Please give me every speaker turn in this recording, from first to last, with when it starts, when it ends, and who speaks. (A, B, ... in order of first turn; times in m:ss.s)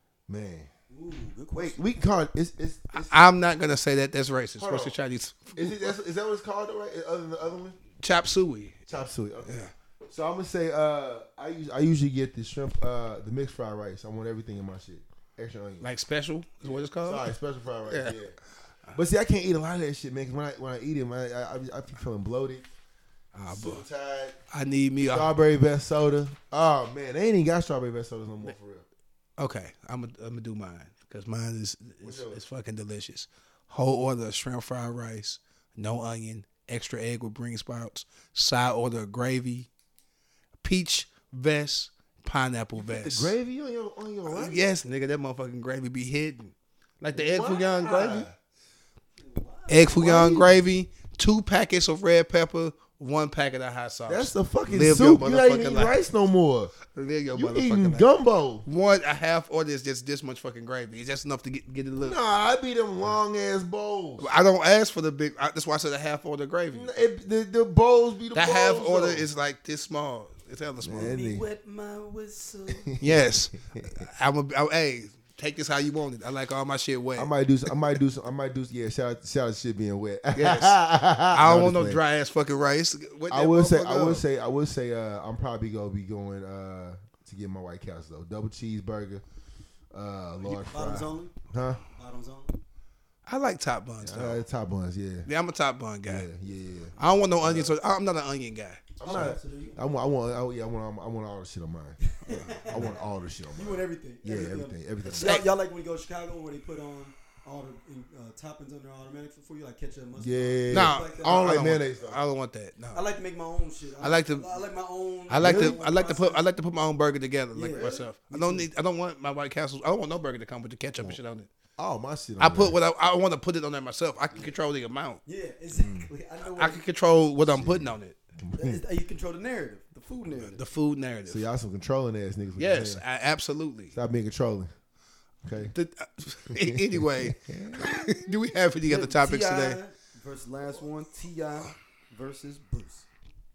0:00.3-0:00.7 A
0:00.9-0:01.8 B
0:01.5-0:03.2 A
0:02.9-0:05.9 C
0:04.6-0:05.0 A
0:05.5-0:07.8 A
0:08.0-0:08.8 C
0:08.9-0:15.9 A
0:09.4-0:09.7 C
0:15.8-0:17.2 C
0:16.6-0:18.4 A
0:17.9-0:18.2 C
0:18.9-0:22.6 A
0:23.3-0:23.8 C
0:23.5-0:24.4 A
0:24.5-0:25.3 C
0:25.0-0:28.8 A
0:29.4-0:39.7 C
0:32.0-0:32.4 A
0:40.6-0:43.3 C
0:42.8-0:44.6 A
0:44.3-0:48.3 C
0:47.1-0:48.3 A
0:49.2-0:50.1 B
0:49.7-0:56.0 C
0:50.0-0:50.5 A
0:54.1-0:56.7 A
0:56.9-0:58.1 C
0:57.3-0:58.6 A
0:58.6-1:02.2 C
1:02.0-1:04.3 A
1:04.2-1:06.9 C
1:06.7-1:09.3 A
1:08.3-1:11.2 C
1:10.8-1:11.4 A
1:10.9-1:13.0 B
1:12.7-1:14.0 A
1:13.0-1:17.7 C
1:17.2-1:22.0 A
1:20.3-1:20.8 C
1:21.3-1:24.2 C
1:23.3-1:29.2 A
1:29.9-1:31.8 A
1:30.4-1:31.3 B
1:31.9-1:32.6 B
1:33.2-1:34.4 C
1:34.0-1:35.3 A
1:35.2-1:36.3 C
1:36.1-1:37.7 A
1:37.0-1:39.3 C
1:39.0-1:45.4 A
1:39.0-1:39.8 B
1:42.1-1:43.0 B
1:43.5-1:51.5 B
1:45.2-1:45.4 C
1:50.2-1:52.2 A
1:50.7-1:53.0 C
1:52.9-1:56.4 B
1:54.0-1:54.6 C
1:55.3-2:01.5 C
1:55.4-1:55.8 A
1:57.5-1:58.7 B
2:01.8-2:02.8 A
2:02.4-2:05.2 C
2:05.2-2:06.8 B
2:05.7-2:06.1 A
2:06.4-2:08.2 C
2:07.4-2:08.8 A
2:08.6-2:10.6 B
2:10.4-2:11.4 C
2:11.3-2:13.0 A
2:12.6-2:13.9 C
2:13.9-2:14.7 A
2:15.4-2:15.7 A
2:15.6-2:19.8 C
2:16.5-2:18.3 A
2:18.8-2:23.1 B